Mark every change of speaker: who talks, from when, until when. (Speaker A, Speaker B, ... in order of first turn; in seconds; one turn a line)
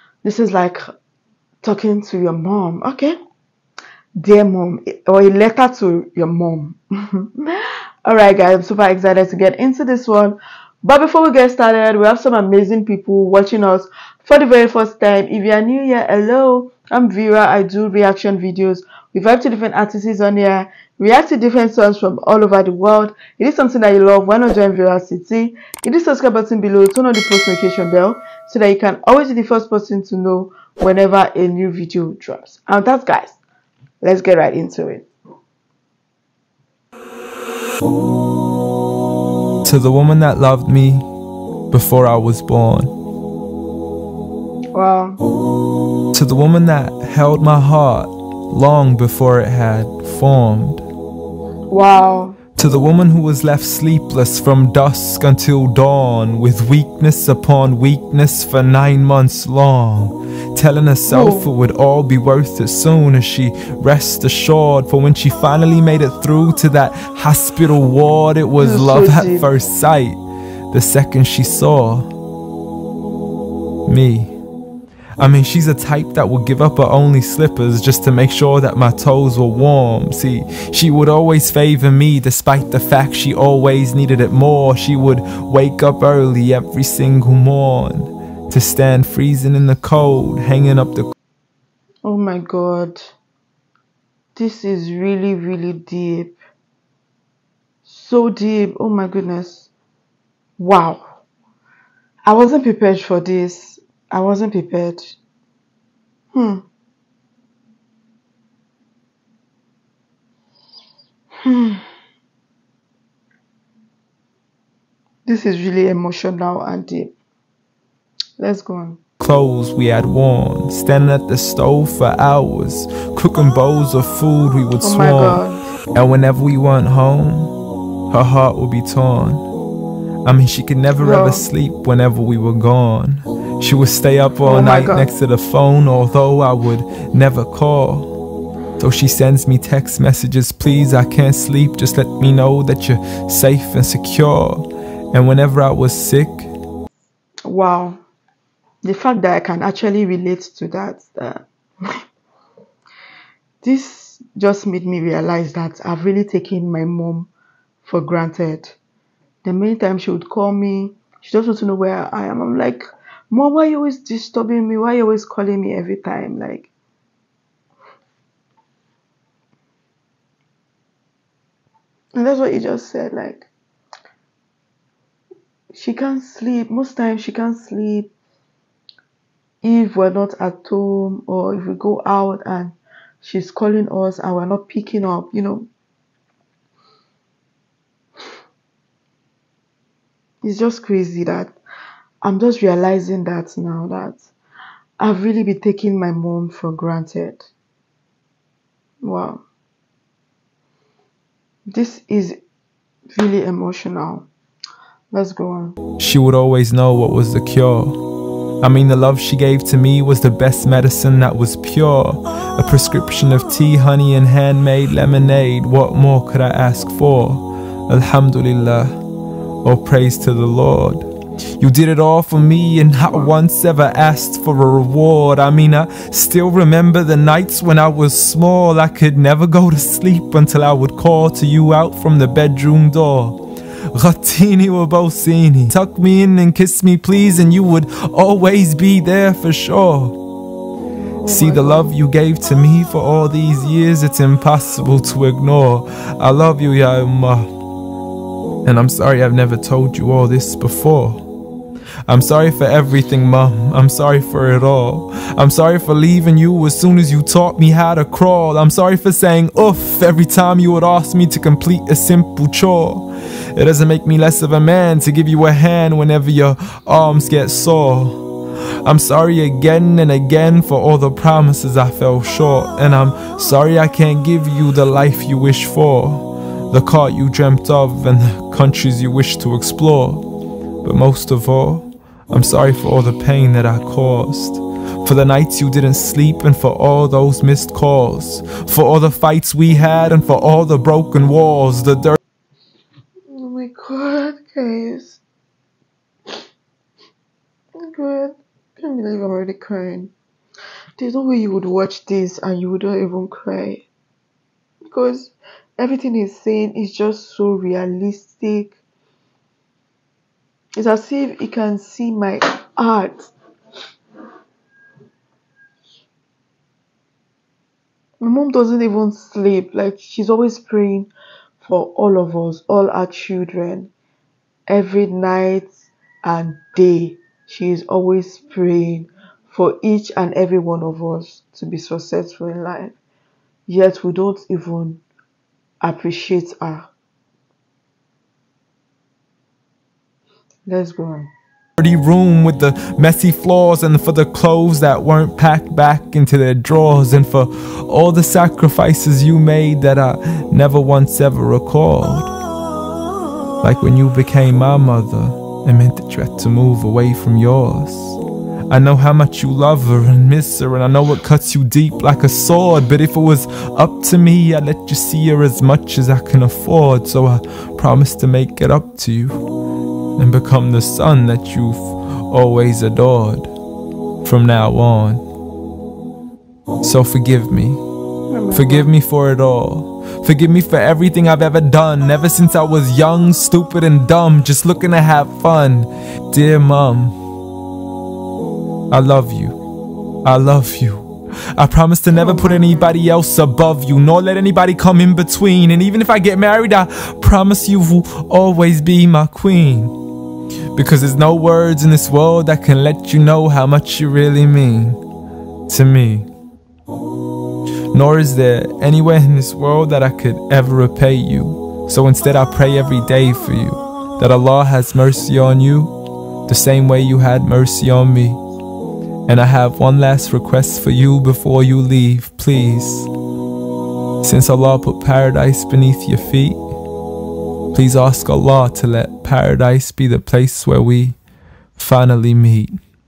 Speaker A: 0.2-0.8
Speaker A: 1.6-3.2
Speaker A: 4.2-33.4
Speaker A: 34.0-35.0
Speaker B: 39.6-41.0
Speaker B: 41.7-42.9
Speaker A: 44.7-45.2
Speaker B: 46.1-50.8
Speaker A: 51.7-52.4
Speaker B: 52.5-70.2
Speaker A: 61.0-61.5
Speaker A: 68.6-69.5
Speaker B: 70.7-72.1
Speaker B: 73.9-74.3
Speaker B: 75.2-91.1
Speaker A: 92.0-93.0
Speaker A: 94.3-96.4
Speaker A: 97.8-99.7
Speaker A: 100.6-101.0
Speaker A: 102.3-105.2
Speaker A: 106.3-106.6
Speaker A: 111.4-111.8
Speaker A: 115.2-117.1
Speaker A: 118.4-119.0
Speaker B: 119.2-125.4
Speaker A: 124.8-125.6
Speaker B: 126.0-127.5
Speaker B: 128.1-129.4
Speaker B: 130.2-138.1
Speaker A: 131.0-131.4
Speaker A: 134.4-135.1
Speaker B: 138.8-146.5
Speaker A: 147.5-148.0
Speaker A: 148.8-151.4
Speaker A: 153.6-157.3
Speaker A: 157.8-158.7
Speaker A: 159.4-166.7
Speaker A: 172.2-173.5
Speaker A: 175.7-178.1
Speaker A: 179.6-185.7
Speaker A: 190.4-191.6
Speaker A: 192.2-194.3
Speaker A: 195.0-197.5
Speaker A: 199.0-199.4
Speaker A: 201.7-202.4
Speaker A: 203.1-204.3
Speaker A: 205.1-205.8
Speaker B: 206.0-208.0
Speaker B: 208.6-218.9
Speaker B: 219.6-233.4
Speaker B: 233.9-240.2
Speaker A: 241.0-241.9
Speaker B: 241.3-247.5
Speaker B: 248.7-251.2
Speaker B: 252.1-268.2
Speaker B: 268.9-280.2
Speaker B: 280.8-292.2
Speaker A: 293.3-295.2
Speaker A: 297.8-300.1
Speaker A: 301.0-303.9
Speaker A: 304.9-308.8
Speaker A: 310.8-313.3
Speaker A: 318.2-321.1
Speaker A: 321.6-323.9
Speaker A: 324.7-333.0
Speaker A: 333.7-335.0
Speaker A: 335.8-336.9
Speaker A: 340.7-341.3
Speaker B: 341.8-352.3
Speaker B: 353.6-358.2
Speaker B: 358.7-369.4
Speaker B: 370.2-373.5
Speaker B: 374.2-375.2
Speaker B: 376.8-377.8
Speaker A: 378.3-378.9
Speaker B: 378.5-387.2
Speaker B: 388.9-389.6
Speaker B: 390.2-399.9
Speaker A: 392.1-392.9
Speaker B: 400.8-405.0
Speaker B: 405.7-406.3
Speaker B: 407.9-415.9
Speaker B: 416.5-418.4
Speaker B: 419.3-423.1
Speaker B: 424.2-426.6
Speaker B: 427.7-431.2
Speaker B: 431.8-432.8